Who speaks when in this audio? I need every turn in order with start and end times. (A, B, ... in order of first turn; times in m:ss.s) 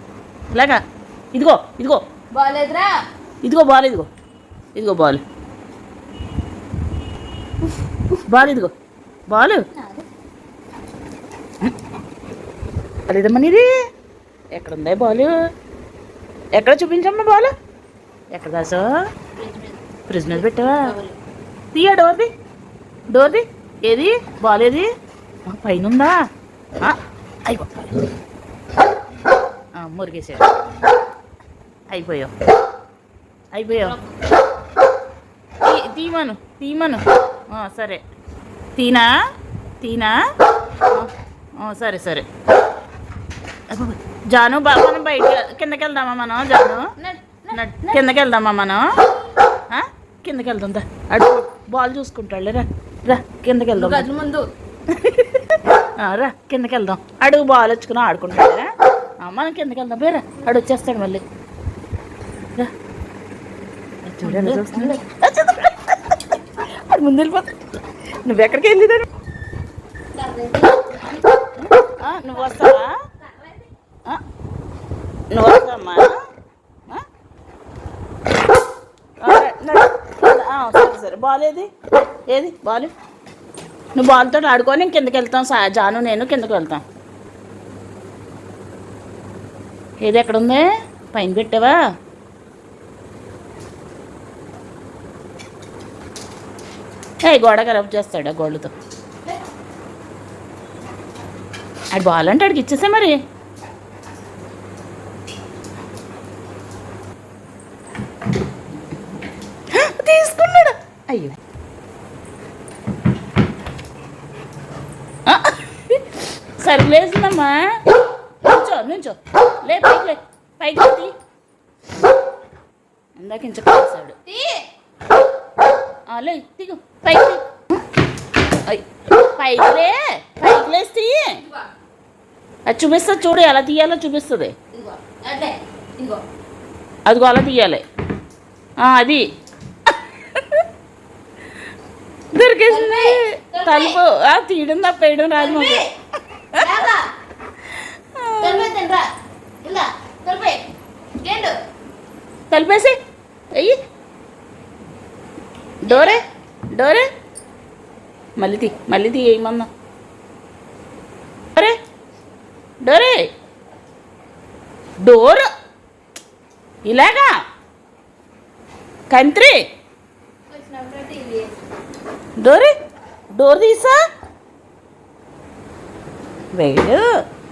0:00.5-0:00.8 A
0:01.3-0:02.0 A
0:02.3-0:03.0 B
0:03.4-0:04.1 A
0:04.7-0:05.2 A
0:08.3-0:08.7 A
0:09.3-0:09.6 A
0:09.7-0:10.0 B
0:13.1-0:13.7 A
0:14.5-0:15.3 A
0:16.5-0:17.5 A
0:18.3-0:18.9 A
0:19.3-0:21.2 B
0:20.1-0:20.9 A
0:21.7-0:22.3 A
0:23.1-0:24.9 A
0:25.5-0:26.2 A
0:26.8-0:27.8 A
0:29.8-0:30.5 A
0:31.9-0:32.3 A
0:33.5-0:34.0 A
0:33.7-0:34.2 B
0:35.6-0:38.0 A
0:38.8-0:39.1 A
0:39.8-0:40.2 A
0:40.9-0:42.2 A
0:43.7-0:46.9 A
0:47.0-0:48.0 B
0:47.5-0:48.9 A
0:49.7-0:54.1 A
0:53.7-0:54.5 B
0:54.9-0:58.7 A
0:59.2-1:01.2 A
1:04.0-1:07.6 A
1:04.2-1:05.0 B
1:08.2-1:09.0 A
1:10.1-1:11.2 B
1:11.8-1:12.9 A
1:13.2-1:13.6 B
1:15.3-1:16.1 A
1:19.2-1:21.7 A
1:22.3-1:22.9 A
1:24.0-1:26.8 A
1:30.0-1:31.8 A
1:37.2-1:38.7 A
1:41.9-1:43.2 A
1:49.7-1:51.4 A
1:55.2-1:57.7 A
1:58.4-2:01.1 A
2:03.2-2:04.2 A
2:04.2-2:04.7 B
2:06.1-2:07.4 A
2:08.5-2:11.4 A
2:12.7-2:14.5 A
2:14.7-2:16.2 B
2:17.0-2:17.8 A
2:18.8-2:19.2 A
2:19.9-2:20.6 A
2:22.3-2:25.9 A
2:22.6-2:24.0 B
2:25.4-2:25.9 B
2:26.5-2:27.1 B
2:28.1-2:28.7 A
2:28.4-2:29.1 B
2:29.6-2:31.6 B
2:32.5-2:33.0 A
2:35.8-2:37.1 A
2:35.8-2:36.2 B
2:38.4-2:39.7 A
2:42.8-2:43.3 A
2:45.0-2:45.5 A
2:46.8-2:47.3 A
2:49.1-2:49.6 A
2:50.5-2:51.6 B
2:52.4-2:52.7 A
2:53.3-2:54.0 A
2:56.5-2:57.1 A